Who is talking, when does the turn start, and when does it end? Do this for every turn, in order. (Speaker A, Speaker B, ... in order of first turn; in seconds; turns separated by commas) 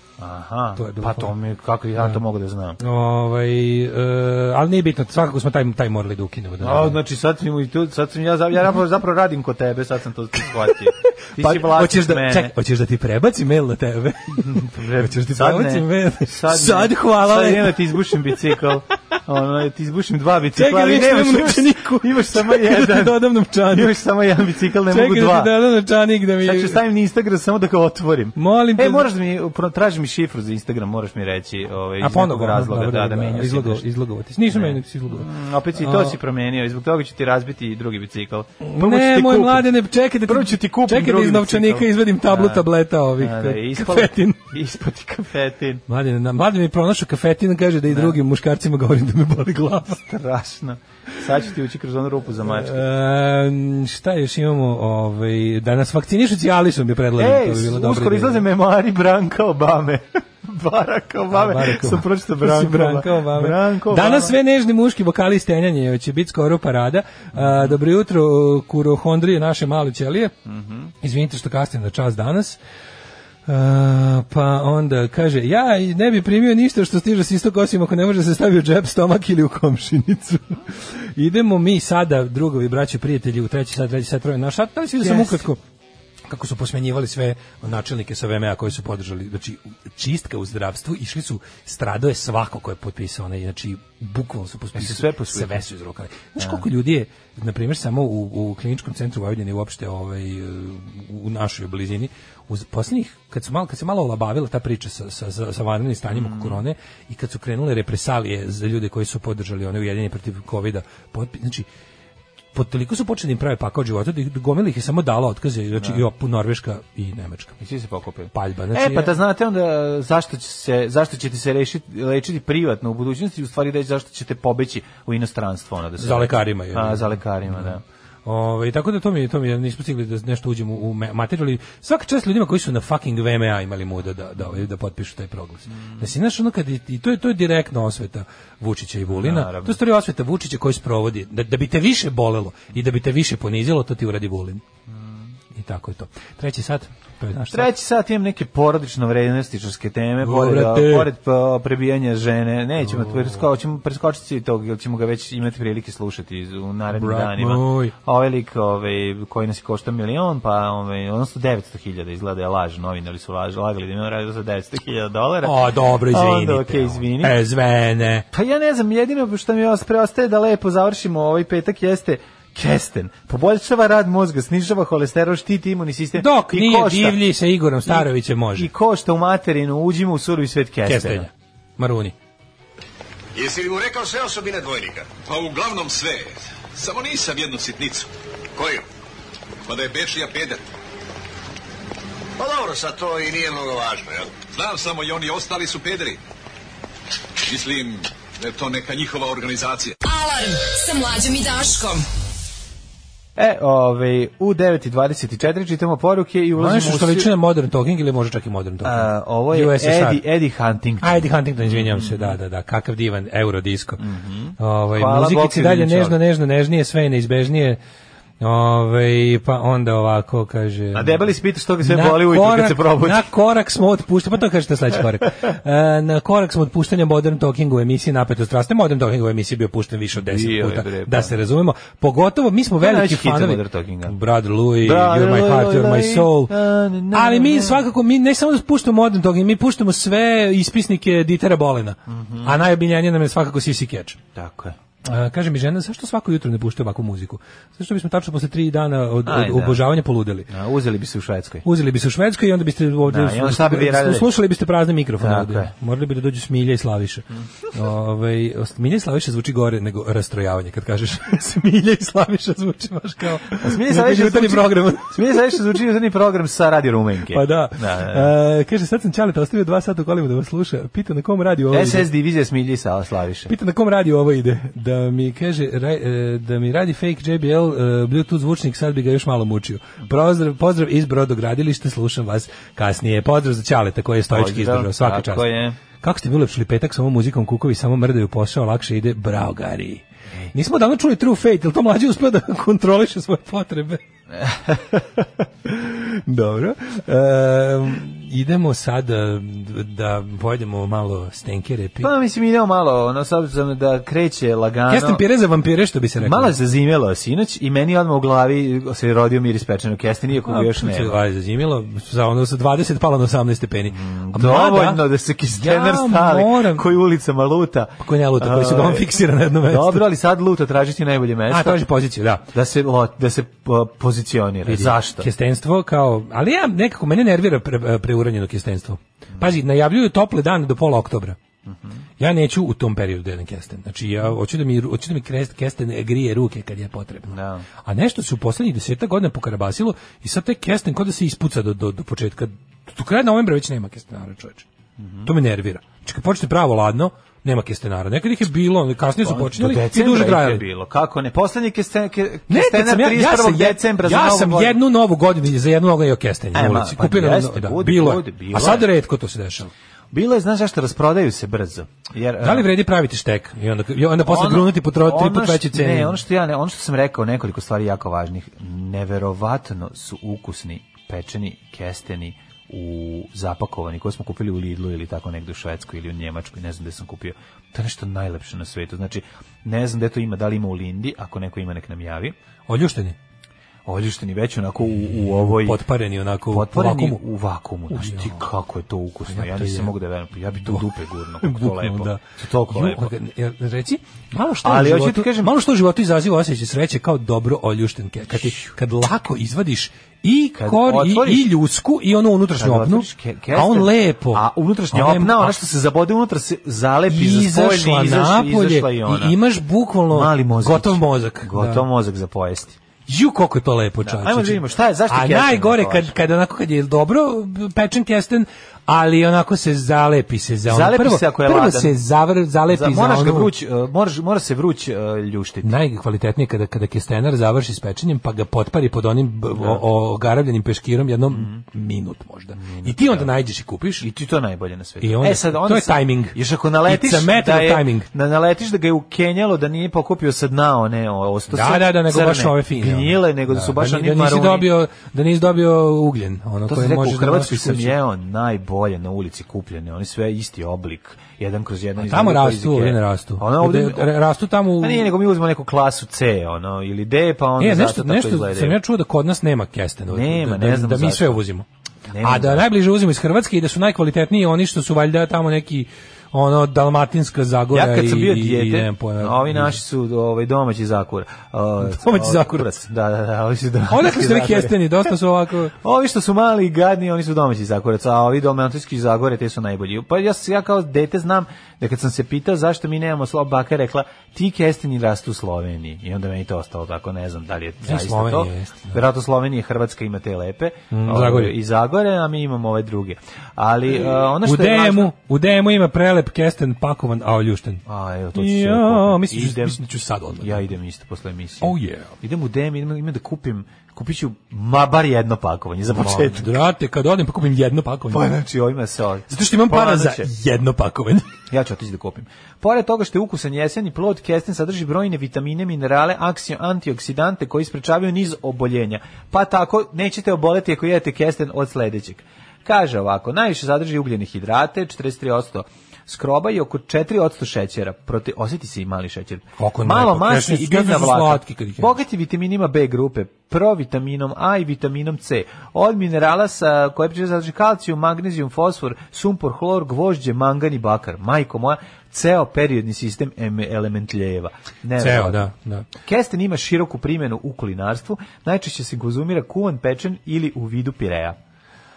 Speaker A: 0.2-2.8, Speaker B: 0.8-1.3, Speaker B: 2.8-7.0, Speaker A: 6.6-12.5, Speaker B: 11.4-18.4, Speaker A: 14.4-25.6, Speaker B: 20.6-24.0, Speaker B: 24.9-26.8, Speaker A: 26.4-33.9, Speaker B: 28.4-29.1, Speaker B: 32.0-36.2, Speaker A: 34.5-39.7, Speaker B: 38.6-44.5, Speaker A: 40.3-42.6, Speaker A: 43.2-45.8, Speaker B: 45.9-50.0, Speaker A: 47.9-48.2, Speaker A: 49.9-52.8, Speaker B: 52.5-58.4, Speaker A: 57.2-64.4, Speaker B: 61.3-70.3, Speaker A: 67.4-67.8, Speaker A: 70.5-70.9, Speaker B: 71.0-72.6, Speaker B: 73.5-85.6, Speaker A: 85.0-85.4, Speaker B: 86.3-111.7, Speaker A: 94.7-95.6, Speaker A: 96.4-96.6, Speaker A: 106.1-106.6, Speaker B: 112.5-117.6, Speaker A: 115.8-116.0, Speaker A: 117.6-127.8, Speaker B: 118.3-119.2, Speaker B: 126.0-127.7, Speaker B: 128.2-144.6, Speaker A: 139.1-139.8, Speaker A: 144.9-145.2, Speaker B: 145.5-147.7, Speaker A: 147.5-167.4, Speaker B: 150.2-151.1, Speaker B: 152.9-153.3, Speaker B: 156.9-157.9, Speaker B: 165.4-168.3, Speaker A: 168.3-177.2, Speaker B: 176.2-178.7, Speaker A: 177.9-181.3, Speaker B: 180.9-182.1, Speaker C: 183.3-185.1, Speaker D: 185.3-188.1, Speaker C: 188.6-188.8, Speaker D: 189.7-190.6, Speaker C: 192.4-194.3, Speaker D: 194.5-196.2, Speaker D: 197.4-200.0, Speaker E: 200.0-202.1, Speaker A: 203.4-207.3, Speaker B: 206.6-210.2, Speaker A: 208.8-212.4, Speaker B: 211.0-214.0, Speaker A: 214.0-216.2, Speaker B: 214.6-217.8, Speaker B: 218.4-221.3, Speaker A: 220.9-223.3, Speaker B: 221.8-236.6, Speaker A: 230.2-231.4, Speaker A: 232.8-234.2, Speaker A: 234.8-237.9, Speaker B: 237.1-244.2, Speaker A: 242.1-242.5, Speaker A: 244.3-244.8, Speaker B: 245.0-250.5, Speaker A: 249.2-249.8, Speaker A: 250.5-251.7, Speaker B: 251.7-265.6, Speaker A: 253.1-254.3, Speaker A: 255.2-255.7, Speaker A: 263.6-268.3, Speaker B: 267.3-272.1, Speaker A: 271.7-273.5, Speaker B: 273.5-294.0, Speaker A: 284.3-285.8, Speaker A: 294.4-295.0, Speaker B: 295.6-302.1, Speaker A: 302.0-305.2, Speaker B: 304.9-306.5, Speaker A: 306.2-311.2, Speaker B: 310.5-316.9, Speaker A: 313.9-319.1, Speaker B: 318.0-320.1, Speaker A: 319.7-321.8, Speaker B: 321.5-322.5, Speaker A: 322.5-325.3, Speaker B: 324.7-331.4, Speaker A: 331.7-332.0, Speaker B: 332.2-344.7, Speaker A: 337.3-337.7, Speaker A: 345.0-345.3, Speaker B: 345.2-350.6, Speaker A: 349.2-354.8, Speaker B: 352.5-359.7, Speaker A: 356.5-358.9, Speaker A: 360.1-362.7, Speaker B: 362.4-366.2, Speaker A: 364.2-382.4, Speaker B: 382.7-383.2, Speaker A: 383.9-385.8, Speaker B: 385.6-387.2, Speaker A: 386.5-393.1, Speaker B: 387.9-388.4, Speaker B: 389.3-389.9, Speaker B: 391.4-405.6, Speaker A: 394.6-395.5, Speaker A: 400.6-401.5, Speaker A: 402.6-409.4, Speaker B: 407.1-411.9, Speaker A: 410.1-412.8, Speaker B: 413.1-423.5, Speaker A: 414.0-416.1, Speaker A: 420.7-422.0, Speaker A: 422.7-425.7, Speaker B: 425.6-434.1, Speaker A: 429.5-429.8, Speaker A: 431.3-431.6, Speaker A: 432.6-433.3, Speaker A: 434.0-444.7, Speaker B: 435.0-438.1, Speaker B: 441.5-448.0, Speaker A: 446.7-454.1, Speaker B: 452.0-455.1, Speaker A: 454.8-458.8, Speaker B: 457.6-461.6, Speaker A: 460.1-461.4, Speaker A: 462.1-462.7, Speaker B: 462.2-469.8, Speaker A: 467.7-475.1, Speaker B: 471.8-472.7, Speaker B: 473.9-475.7, Speaker A: 475.8-495.1, Speaker B: 487.9-489.0, Speaker B: 490.9-491.6, Speaker B: 494.0-497.8, Speaker A: 497.9-499.8, Speaker B: 498.4-500.7, Speaker A: 500.4-506.6, Speaker B: 501.6-502.1, Speaker B: 505.9-508.4, Speaker A: 508.1-510.3, Speaker B: 509.3-511.3, Speaker A: 511.5-545.5, Speaker B: 529.6-532.0, Speaker B: 545.0-545.9, Speaker A: 546.0-551.4